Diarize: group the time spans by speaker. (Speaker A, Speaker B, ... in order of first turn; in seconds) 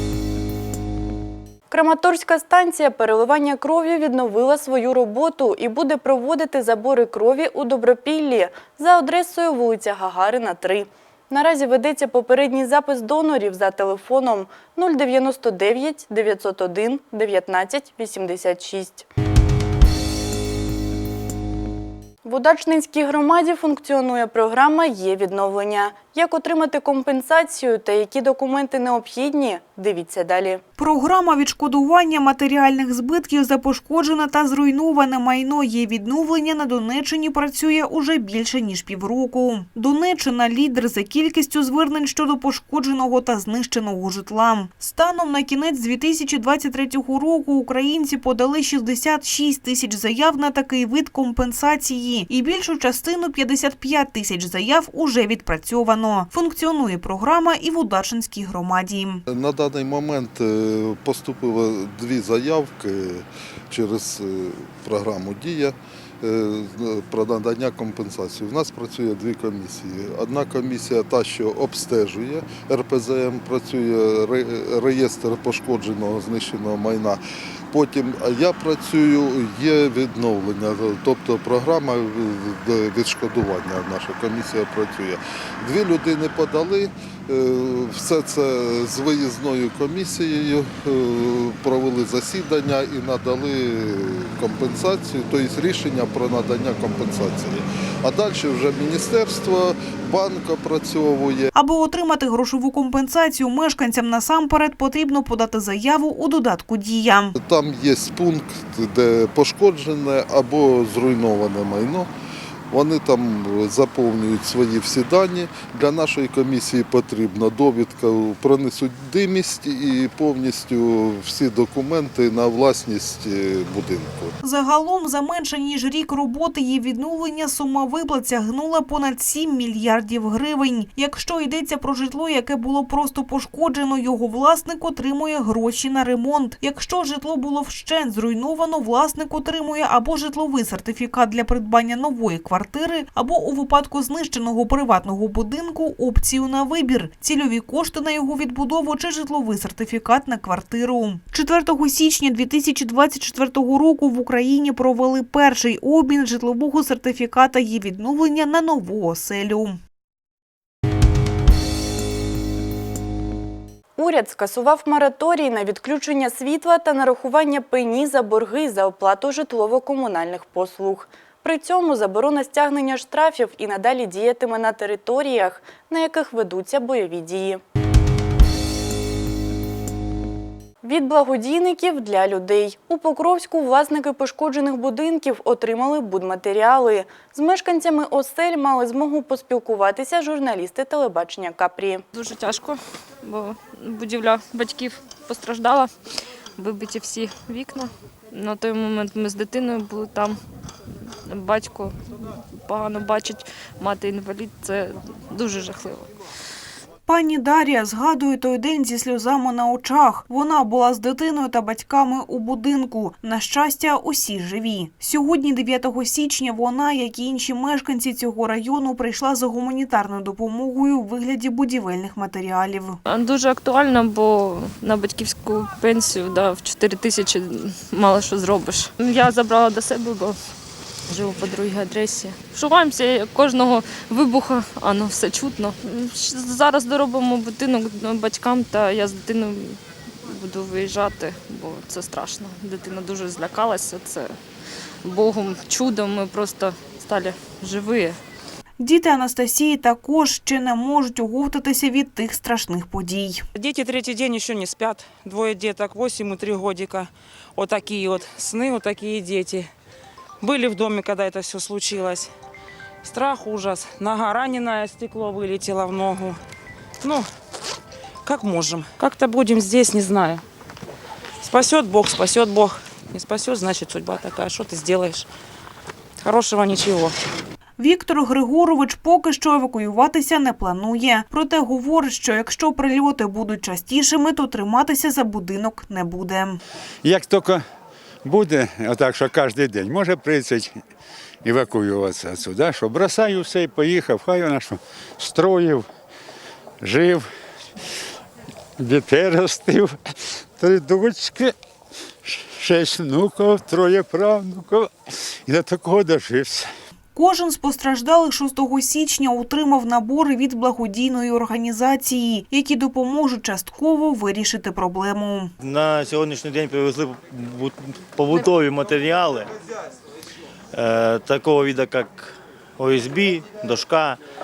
Speaker A: 1.7-19.1, 22.2-30.6, 164.0-177.6, 180.8-192.0
Speaker B: 30.8-59.2, 101.5-107.3, 124.4-159.8, 207.1-223.0, 248.8-253.4, 277.8-286.6, 307.1-315.5
Speaker C: 59.3-77.2, 77.7-101.5, 107.4-112.1, 112.7-124.3
Speaker D: 192.2-195.9, 196.6-200.3, 201.3-201.9, 202.6-206.1, 223.1-230.3, 231.1-239.8, 240.3-244.3, 245.1-248.1
Speaker E: 253.5-259.7, 260.4-262.3, 263.0-266.4, 268.2-270.4, 271.4-275.2, 276.2-277.1
Speaker F: 287.0-287.6, 288.2-290.7, 291.4-295.8, 296.8-297.2, 298.8-299.9, 300.6-301.5, 302.2-304.9, 305.5-306.7
Speaker G: 315.6-319.5, 320.7-324.2